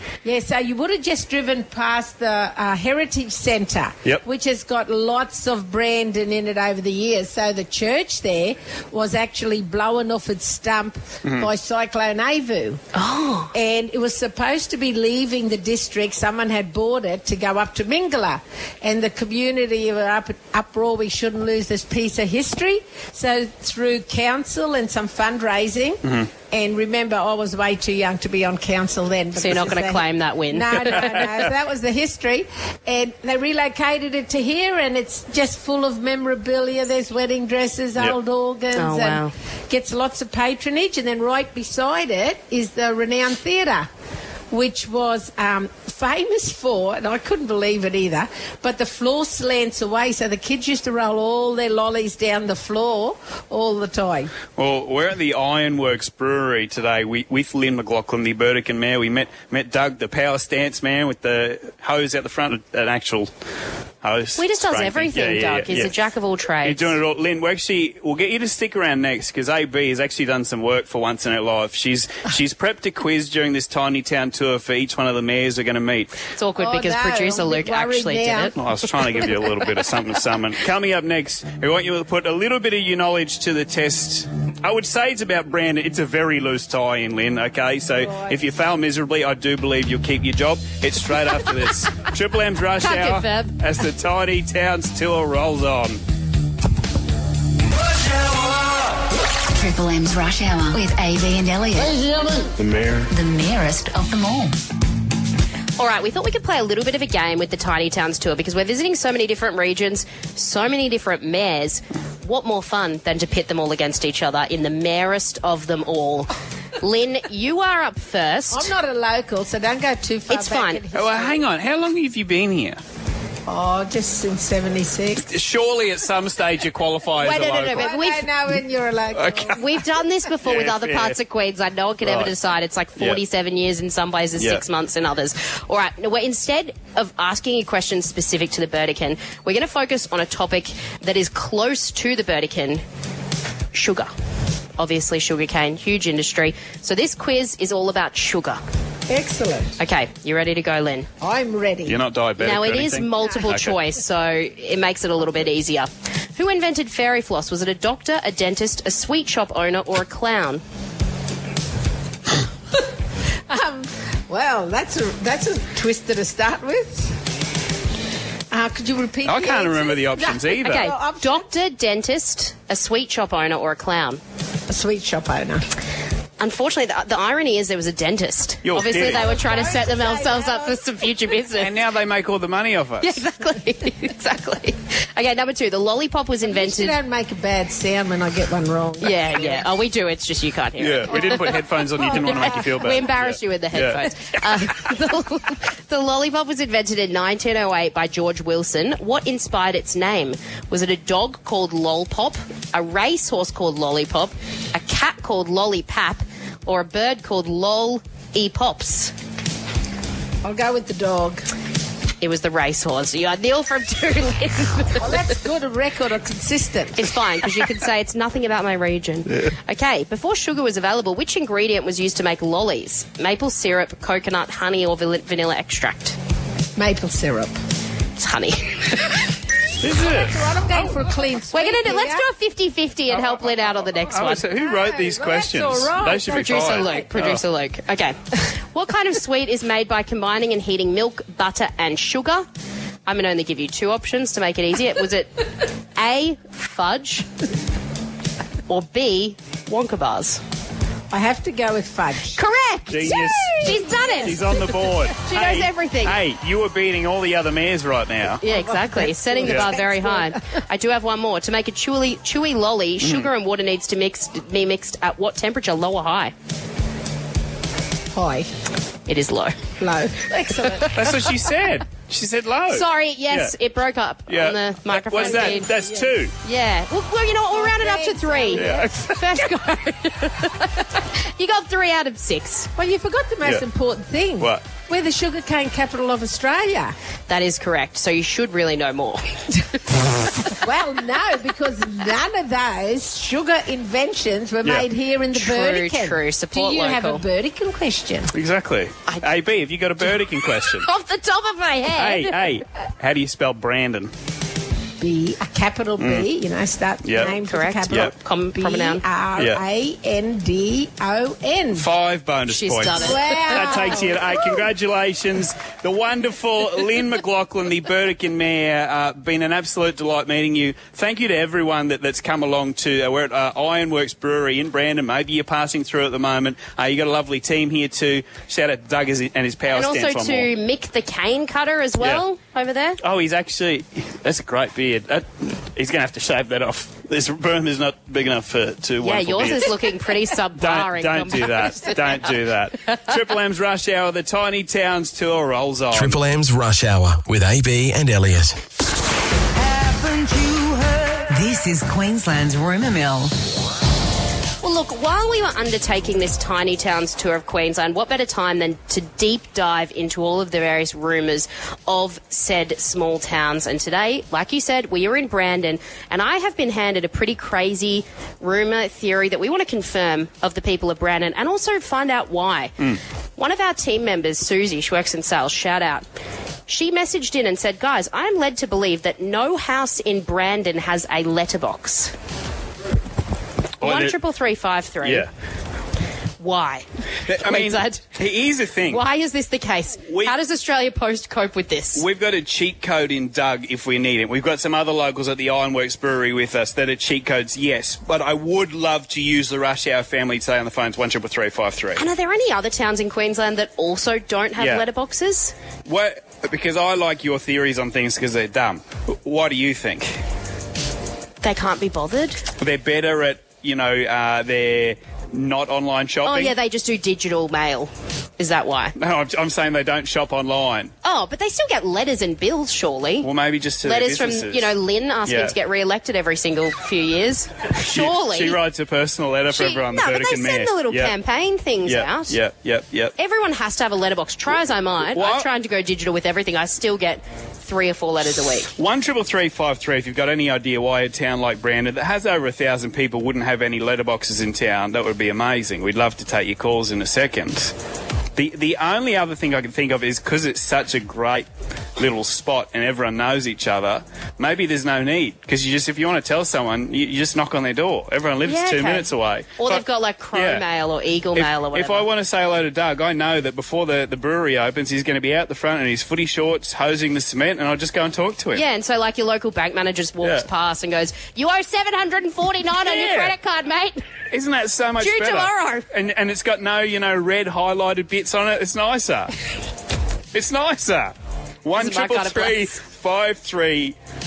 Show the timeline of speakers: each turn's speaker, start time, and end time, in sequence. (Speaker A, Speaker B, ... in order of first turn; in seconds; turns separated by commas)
Speaker A: 0.2-12.8, Speaker B: 11.2-11.5, Speaker C: 12.9-13.5, Speaker A: 13.5-43.9, Speaker C: 29.4-31.3, Speaker C: 38.7-39.3, Speaker A: 44.5-54.3, Speaker B: 54.6-63.3, Speaker B: 64.0-65.9, Speaker C: 64.4-67.0, Speaker B: 66.6-76.1, Speaker C: 76.3-78.5, Speaker A: 76.6-78.7, Speaker B: 78.6-96.0, Speaker C: 92.8-93.6, Speaker D: 99.5-102.1, Speaker D: 103.0-104.5, Speaker C: 105.8-118.7, Speaker A: 118.5-121.4, Speaker C: 120.3-120.8, Speaker B: 120.9-122.8, Speaker A: 123.5-125.2, Speaker B: 125.2-127.9, Speaker C: 127.2-128.3, Speaker A: 127.4-129.6, Speaker B: 129.1-129.6, Speaker C: 129.5-142.8, Speaker B: 130.4-131.2, Speaker B: 132.0-132.3, Speaker C: 143.7-144.1, Speaker C: 144.8-148.6, Speaker A: 149.1-149.8, Speaker C: 149.8-151.1, Speaker A: 151.2-152.0, Speaker B: 151.8-153.7, Speaker C: 152.4-160.6, Speaker A: 163.5-167.1, Speaker A: 168.5-171.4, Speaker B: 169.2-170.9, Speaker C: 170.6-174.2, Speaker A: 174.7-175.6, Speaker C: 176.4-181.7, Speaker B: 178.6-179.3, Speaker A: 178.8-180.8, Speaker B: 181.6-183.2, Speaker C: 183.0-187.0, Speaker A: 186.5-189.6, Speaker C: 189.0-209.1, Speaker B: 190.8-194.0, Speaker A: 191.1-192.7, Speaker A: 210.4-211.5, Speaker C: 212.2-215.1, Speaker A: 215.0-217.1, Speaker C: 216.9-226.2, Speaker A: 226.8-227.6, Speaker C: 228.2-229.0, Speaker B: 229.8-230.5, Speaker A: 230.0-232.2, Speaker C: 231.5-234.4, Speaker B: 234.1-237.4, Speaker A: 234.5-237.1, Speaker C: 236.2-242.4, Speaker C: 243.1-245.3, Speaker C: 245.9-247.3, Speaker C: 248.7-250.4, Speaker A: 251.1-252.3, Speaker C: 252.3-254.4, Speaker B: 252.9-258.4, Speaker A: 253.0-254.6, Speaker C: 255.3-256.2, Speaker C: 258.4-266.3, Speaker A: 258.4-260.3, Speaker B: 263.0-263.3, Speaker A: 268.1-268.5, Speaker C: 269.1-269.6, Speaker A: 269.8-271.3, Speaker B: 270.9-273.5, Speaker C: 272.7-275.7, Speaker B: 274.3-276.3, Speaker A: 275.1-276.1, Speaker C: 276.4-282.7, Speaker A: 277.5-278.9, Speaker B: 278.5-279.2, Speaker A: 282.8-286.9, Speaker C: 287.3-289.6, Speaker A: 290.5-298.3, Speaker C: 295.3-297.2, Speaker B: 298.3-300.9, Speaker C: 300.7-302.4, Speaker B: 301.9-304.1, Speaker A: 305.0-311.9, Speaker B: 306.0-306.3, Speaker B: 307.0-307.3, Speaker C: 307.2-309.0, Speaker B: 311.7-330.5, Speaker C: 312.5-314.0, Speaker A: 313.0-314.5, Speaker C: 329.7-333.0, Speaker B: 333.0-339.7, Speaker C: 339.0-342.2, Speaker B: 340.6-346.2, Speaker E: 345.9-348.6, Speaker F: 349.8-353.3, Speaker C: 354.6-372.7, Speaker C: 373.4-376.1, Speaker C: 376.7-382.1, Speaker B: 383.8-384.1, Speaker C: 383.8-385.2, Speaker B: 385.0-385.3, Speaker C: 386.4-388.0, Speaker B: 387.3-389.0, Speaker C: 388.9-392.0, Speaker B: 390.1-390.3, Speaker B: 391.9-402.0, Speaker C: 401.9-405.5, Speaker B: 404.6-404.8, Speaker B: 405.9-410.2, Speaker C: 411.4-412.4, Speaker B: 412.6-416.5, Speaker C: 416.2-418.9, Speaker B: 419.0-420.9, Speaker C: 421.0-423.3, Speaker B: 423.2-424.7, Speaker C: 423.8-428.6, Speaker B: 425.3-425.5, Speaker B: 427.8-431.1, Speaker C: 429.5-432.4, Speaker B: 431.8-433.1, Speaker C: 433.2-438.7, Speaker B: 435.1-435.5, Speaker B: 438.8-447.7, Speaker B: 448.4-459.8, Speaker C: 458.4-462.1, Speaker B: 460.3-460.6, Speaker B: 461.3-468.6, Speaker C: 468.5-474.0, Speaker B: 472.8-473.3, Speaker B: 474.3-479.3, Speaker C: 475.0-475.9, Speaker B: 480.3-483.9, Speaker C: 481.8-482.8